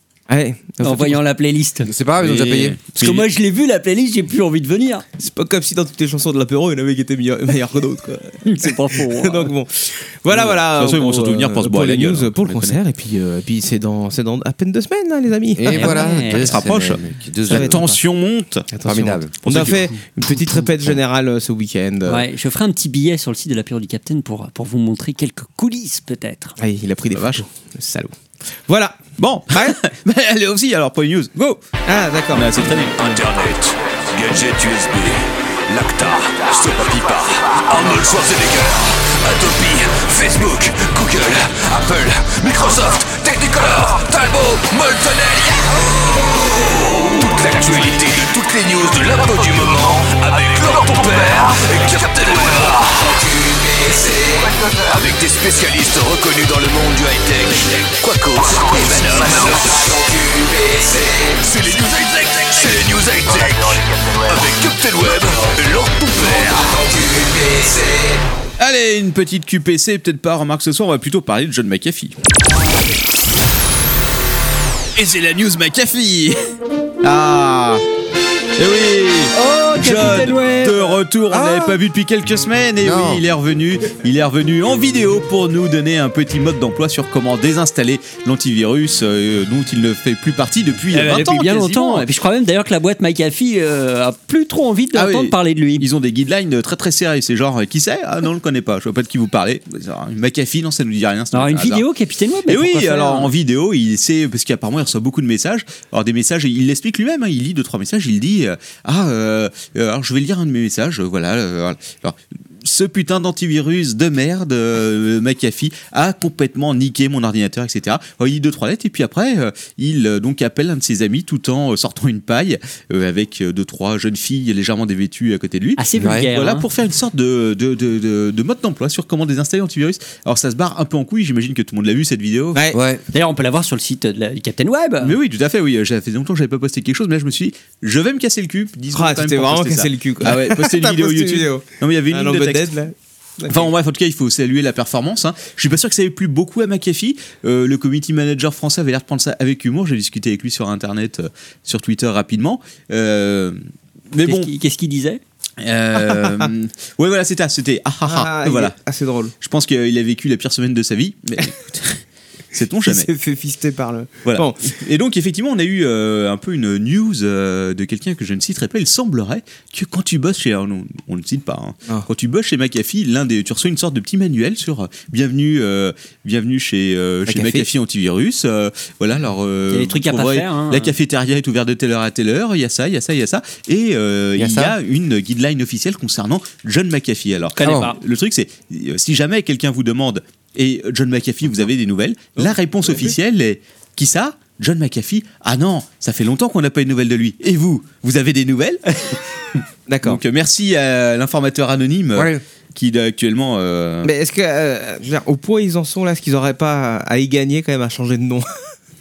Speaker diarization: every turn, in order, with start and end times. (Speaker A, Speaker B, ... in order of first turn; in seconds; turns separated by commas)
Speaker A: 0.3-1.2, Speaker B: 0.8-1.9, Speaker C: 1.8-2.8, Speaker D: 2.2-3.3, Speaker B: 3.0-5.0, Speaker A: 5.2-16.0, Speaker B: 8.4-9.5, Speaker D: 10.3-12.8, Speaker C: 15.6-17.9, Speaker B: 15.7-16.5, Speaker D: 16.4-18.6, Speaker A: 17.5-18.0, Speaker A: 18.7-22.2, Speaker C: 18.8-19.7, Speaker D: 19.4-19.8, Speaker B: 22.1-26.6, Speaker A: 26.6-29.8, Speaker D: 27.1-27.4, Speaker D: 29.2-31.6, Speaker A: 31.9-33.2, Speaker D: 32.3-33.0, Speaker E: 33.0-68.2, Speaker D: 68.6-72.2, Speaker D: 75.0-76.3, Speaker D: 77.0-77.8, Speaker D: 78.6-92.0, Speaker B: 79.3-80.9, Speaker C: 81.4-81.7, Speaker C: 82.8-83.2, Speaker B: 90.9-95.8, Speaker D: 94.9-101.8, Speaker B: 101.3-103.3, Speaker D: 102.5-125.8, Speaker B: 125.8-126.7, Speaker C: 126.0-126.3, Speaker D: 126.3-132.6, Speaker A: 132.5-132.8, Speaker C: 132.7-133.0, Speaker B: 133.1-135.2, Speaker D: 135.0-142.7, Speaker A: 138.9-143.7, Speaker D: 143.5-153.6, Speaker D: 154.1-154.5, Speaker B: 154.2-155.2, Speaker D: 155.6-158.8, Speaker A: 156.1-156.4, Speaker A: 158.0-159.3, Speaker D: 159.4-162.0, Speaker D: 162.5-163.1, Speaker A: 162.8-164.7, Speaker D: 164.2-199.2, Speaker A: 177.3-177.6, Speaker B: 179.7-180.9, Speaker C: 184.4-184.8, Speaker B: 187.6-188.0, Speaker C: 187.6-187.9, Speaker A: 192.4-193.1, Speaker A: 199.9-200.2, Speaker D: 200.0-204.1, Speaker C: 202.2-202.4, Speaker A: 204.0-208.5